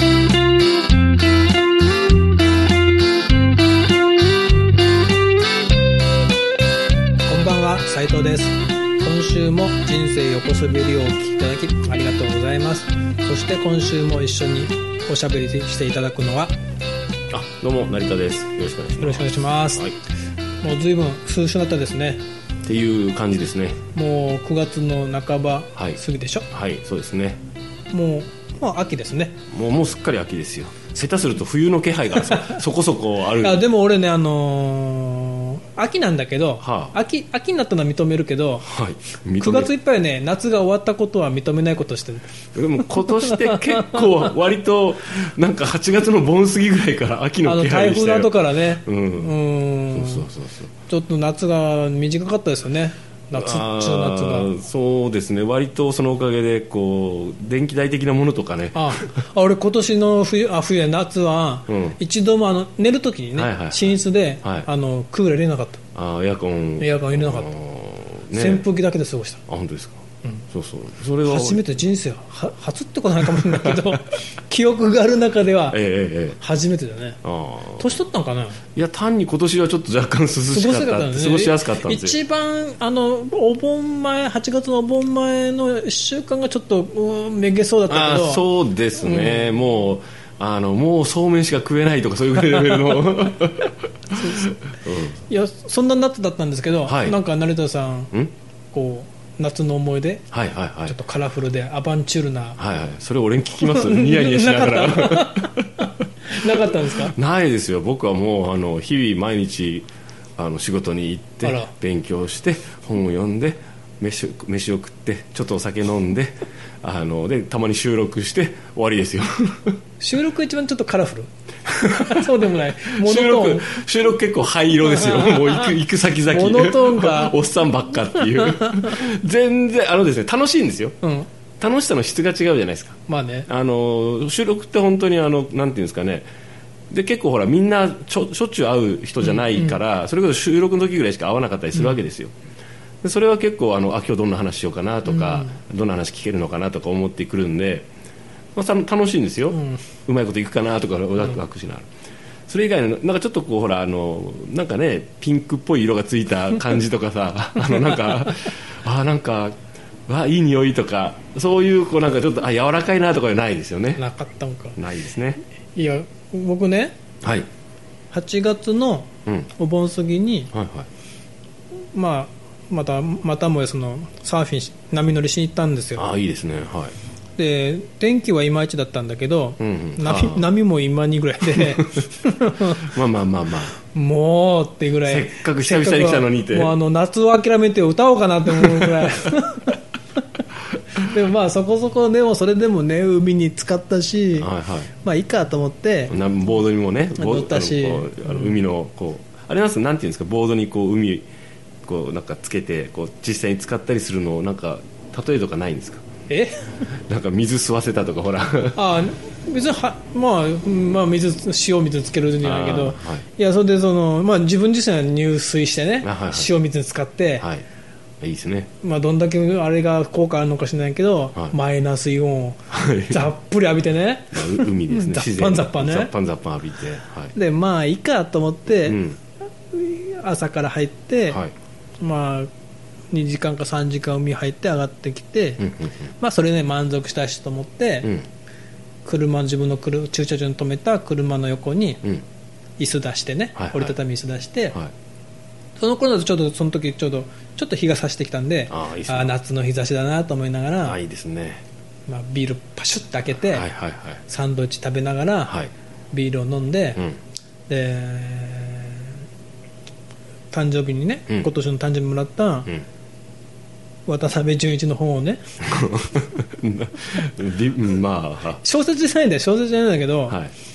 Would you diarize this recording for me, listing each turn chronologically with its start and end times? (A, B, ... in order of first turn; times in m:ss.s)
0:07.2-0:16.5 A
0:17.3-0:19.9 B
0:19.0-0:19.8 A
0:20.6-0:22.2 A
0:22.6-0:23.8 B
0:23.9-0:26.5 A
0:26.5-0:27.4 B
0:27.9-0:29.4 A
0:29.5-0:33.6 B
0:32.2-0:32.6 A
0:33.4-0:38.7 A
0:36.6-0:36.9 B
0:38.6-0:39.7 B
0:39.4-0:42.3 A
0:42.5-0:49.3 B
0:42.8-0:44.1 A
0:47.4-0:50.2 A
0:49.9-0:50.7 B
0:50.9-0:54.5 A
0:53.3-0:59.1 B
0:58.7-1:05.8 A
1:01.7-1:02.0 B
1:03.4-1:04.7 B
1:05.9-1:08.6 B
1:06.8-1:07.5 A
1:08.3-1:09.4 A
1:09.5-1:11.6 B
1:11.2-1:15.8 A
1:13.3-1:13.9 B
1:15.7-1:16.4 B
1:16.4-1:17.2 A
1:17.2-1:17.9 B
1:17.8-1:18.6 A
1:18.7-1:22.2 B
1:20.5-1:28.4 A
1:27.9-1:35.2 B
1:29.0-1:29.6 A
1:34.1-1:34.6 A
1:35.2-1:38.1 A
1:36.8-1:37.2 B
1:38.7-1:40.3 A
1:40.3-1:41.0 B
1:40.9-1:42.6 A
1:42.6-1:45.7 B
1:43.6-1:47.1 A
1:46.4-1:59.8 B
1:51.4-1:51.7 A
2:00.0-2:01.3 A
2:01.6-2:02.3 B
2:01.9-2:03.7 A
2:02.8-2:11.0 B
2:04.8-2:07.4 A
2:11.0-2:11.3 A
2:11.6-2:16.3 B
2:13.1-2:13.5 A
2:16.9-2:22.3 B
2:23.0-2:27.9 B
2:25.1-2:25.5 A
2:28.5-2:31.9 B
2:29.5-2:29.8 A
2:32.5-2:39.5 B
2:40.1-2:44.0 B
2:44.0-2:44.8 A
2:44.8-2:45.4 B
2:45.7-2:47.0 A
2:47.2-2:47.5 B
2:48.1-2:50.5 A
2:50.5-2:50.9 B
2:51.9-2:56.1 A
2:56.0-2:56.9 B
2:57.4-3:03.0 A
2:59.6-3:00.5 B
3:01.5-3:02.0 B
3:02.8-3:03.8 B
3:03.9-3:09.8 A
3:05.1-3:06.7 B
3:08.5-3:09.1 B
3:11.0-3:16.1 A
3:14.3-3:14.9 B
3:16.1-3:21.3 B
3:17.1-3:18.6 A
3:21.8-3:26.0 B
3:26.3-3:26.7 A
3:27.1-3:28.8 B
3:28.7-3:37.5 A
3:32.4-3:33.2 B
3:36.0-3:36.5 B
3:37.4-3:37.6 B
3:38.2-3:38.7 B
3:38.8-3:46.1 A
3:42.7-3:43.3 B
3:44.3-3:47.3 B
3:47.3-3:49.0 A
3:48.8-3:49.2 B
3:49.7-3:51.4 A
3:51.3-3:51.5 B
3:52.0-3:52.5 A
3:53.1-3:55.7 A
3:55.6-3:55.9 B
3:56.2-3:58.1 A
3:59.0-4:02.0 A
4:02.8-4:04.8 A
4:03.6-4:03.9 B
4:05.8-4:11.0 A
4:08.7-4:09.4 B
4:10.8-4:11.6 B
4:12.1-4:13.7 A
4:13.5-4:14.2 B
4:14.3-4:15.6 A
4:16.1-4:17.0 A
4:17.7-4:19.2 A
4:20.5-4:22.7 A
4:24.0-4:25.4 A
4:25.7-4:28.6 B
4:28.6-4:30.4 A
4:30.3-4:30.5 B